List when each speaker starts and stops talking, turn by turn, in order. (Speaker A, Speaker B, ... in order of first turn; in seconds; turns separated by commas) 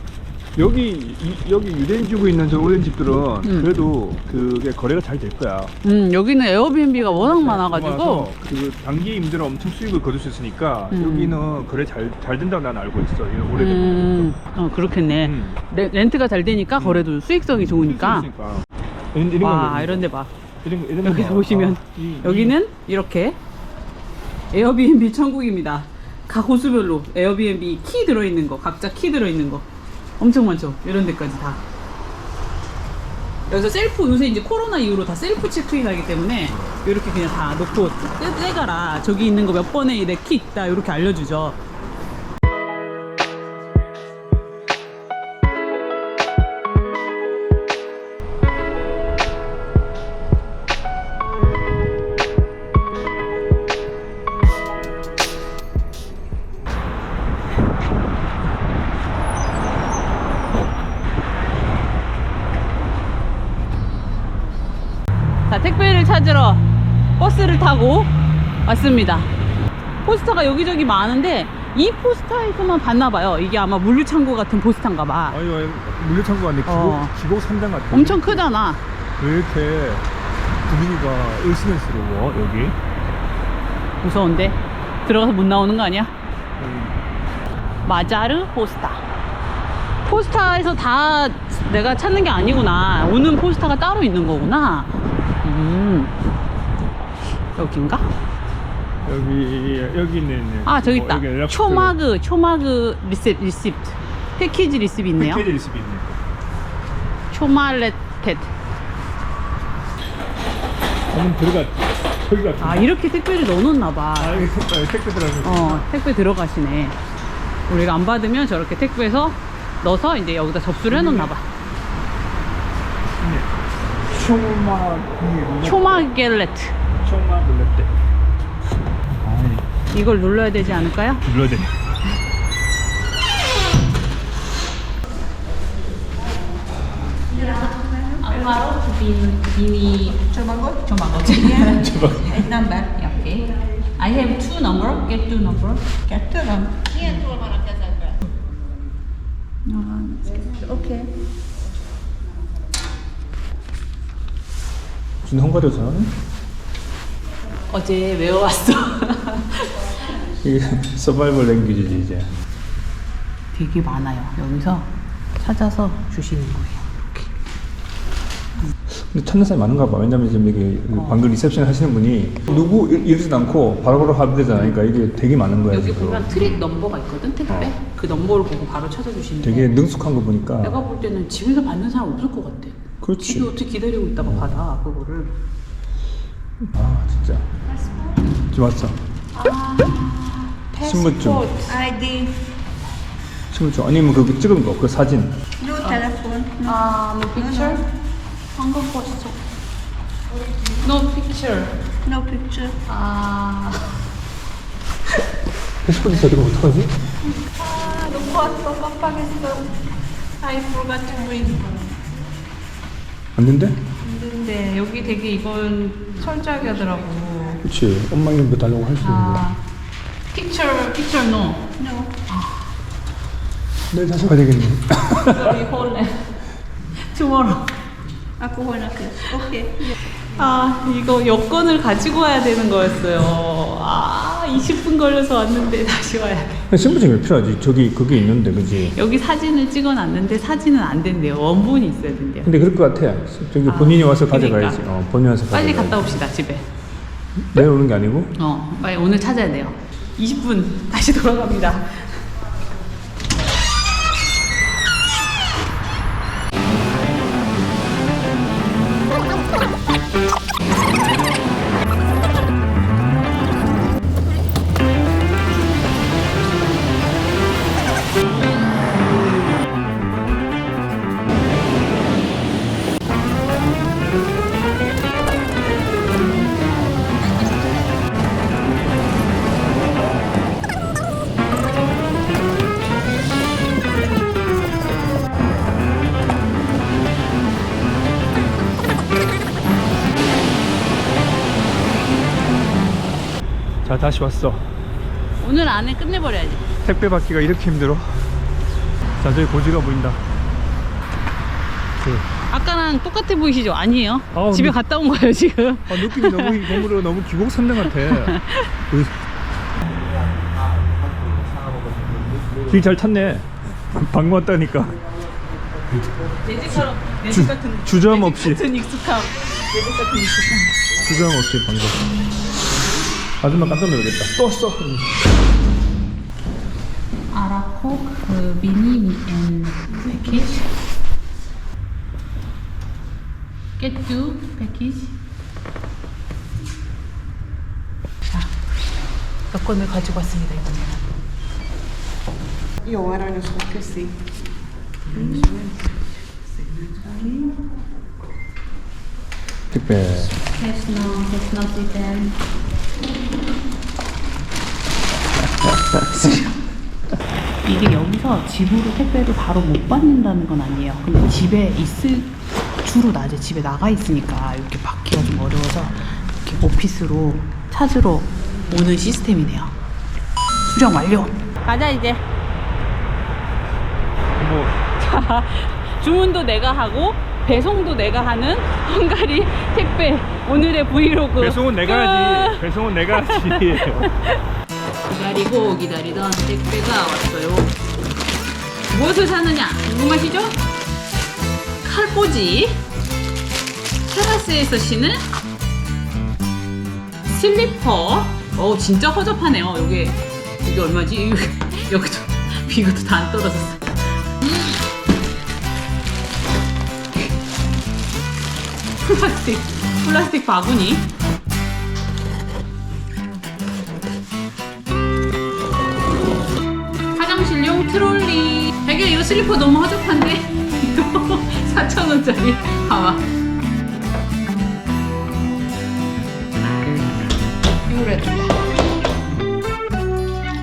Speaker A: 0.6-5.7, Speaker B: 3.4-3.8, Speaker B: 5.8-8.3, Speaker A: 7.0-14.3, Speaker B: 10.9-11.4, Speaker B: 13.6-18.3, Speaker A: 15.2-15.6, Speaker A: 16.8-17.1, Speaker A: 17.6-20.1, Speaker B: 19.4-20.3, Speaker A: 20.6-22.6, Speaker B: 21.0-23.4, Speaker B: 24.5-29.6, Speaker B: 30.2-31.6, Speaker B: 33.5-41.6, Speaker B: 65.5-66.6, Speaker B: 67.2-68.1, Speaker B: 68.6-69.3, Speaker B: 70.0-75.4, Speaker A: 75.3-78.5, Speaker B: 76.7-77.1, Speaker B: 77.9-78.8, Speaker A: 79.2-80.0, Speaker A: 80.7-82.8, Speaker B: 84.0-86.1, Speaker A: 86.6-86.9, Speaker B: 87.8-89.0, Speaker B: 90.0-96.1, Speaker B: 97.5-98.1, Speaker A: 99.0-102.0, Speaker B: 100.6-105.4, Speaker A: 105.2-106.2, Speaker B: 107.3-108.5, Speaker A: 111.1-112.8, Speaker B: 112.6-114.5, Speaker A: 114.2-115.8, Speaker B: 115.4-117.0, Speaker B: 117.7-121.5, Speaker A: 120.9-121.3, Speaker A: 123.2-123.5, Speaker A: 124.1-126.1, Speaker B: 125.6-126.8, Speaker A: 126.9-127.9, Speaker A: 129.2-129.6, Speaker B: 129.9-131.2, Speaker A: 131.2-131.7, Speaker B: 137.3-148.2, Speaker C: 137.8-138.2, Speaker A: 141.8-142.3, Speaker C: 142.4-142.8, Speaker C: 146.3-146.7, Speaker B: 149.7-151.1, Speaker A: 155.2-156.1, Speaker B: 157.7-159.9, Speaker A: 160.4-162.3, Speaker B: 163.5-167.3, Speaker A: 168.9-176.7, Speaker B: 170.9-171.2, Speaker B: 175.7-179.8, Speaker A: 177.5-177.7, Speaker A: 179.4-180.8, Speaker B: 180.6-185.3, Speaker A: 183.0-183.5, Speaker A: 184.2-184.6, Speaker A: 186.6-187.5, Speaker A: 188.5-188.9, Speaker B: 189.3-192.2, Speaker A: 190.8-191.5, Speaker C: 191.9-192.4, Speaker A: 193.5-195.3, Speaker B: 195.7-197.9, Speaker C: 195.8-196.7, Speaker B: 198.6-199.4, Speaker B: 200.8-201.8, Speaker C: 202.1-202.7, Speaker B: 202.7-204.0, Speaker A: 205.8-206.9, Speaker B: 207.3-209.8, Speaker B: 210.4-211.9, Speaker A: 213.3-213.8, Speaker B: 214.0-217.6, Speaker A: 217.6-219.4, Speaker B: 219.0-219.6, Speaker B: 220.3-221.7, Speaker C: 221.8-222.1, Speaker A: 223.9-225.7, Speaker B: 225.1-226.3, Speaker B: 227.0-227.7, Speaker C: 228.4-229.7, Speaker B: 229.1-236.7, Speaker A: 236.7-238.9, Speaker B: 238.8-242.5, Speaker A: 242.4-246.0, Speaker B: 243.6-244.8, Speaker B: 245.5-246.7, Speaker A: 247.5-248.3, Speaker B: 248.3-252.2, Speaker A: 293.8-294.7, Speaker B: 295.4-296.6, Speaker A: 296.8-298.2, Speaker A: 299.2-300.2, Speaker A: 302.0-302.2, Speaker B: 302.5-306.9, Speaker A: 304.3-304.8, Speaker A: 305.9-308.4, Speaker B: 307.8-308.7, Speaker A: 312.7-315.0, Speaker B: 316.4-320.8, Speaker A: 316.7-318.6, Speaker A: 321.0-322.1, Speaker A: 323.4-325.1, Speaker B: 327.3-330.7, Speaker B: 333.8-335.1, Speaker B: 339.5-341.0, Speaker B: 342.9-344.1, Speaker C: 343.0-343.8, Speaker B: 345.1-347.6, Speaker A: 349.7-350.3, Speaker B: 350.3-352.4, Speaker B: 355.7-356.6, Speaker A: 355.7-356.3, Speaker B: 357.6-369.7, Speaker B: 370.6-372.2, Speaker A: 374.4-374.9, Speaker B: 375.0-384.4, Speaker A: 381.4-384.1, Speaker B: 385.1-387.7, Speaker B: 388.9-390.6, Speaker B: 391.8-392.8, Speaker B: 394.1-395.2, Speaker B: 397.3-404.9, Speaker B: 409.0-411.1, Speaker B: 417.1-423.2, Speaker B: 427.9-428.5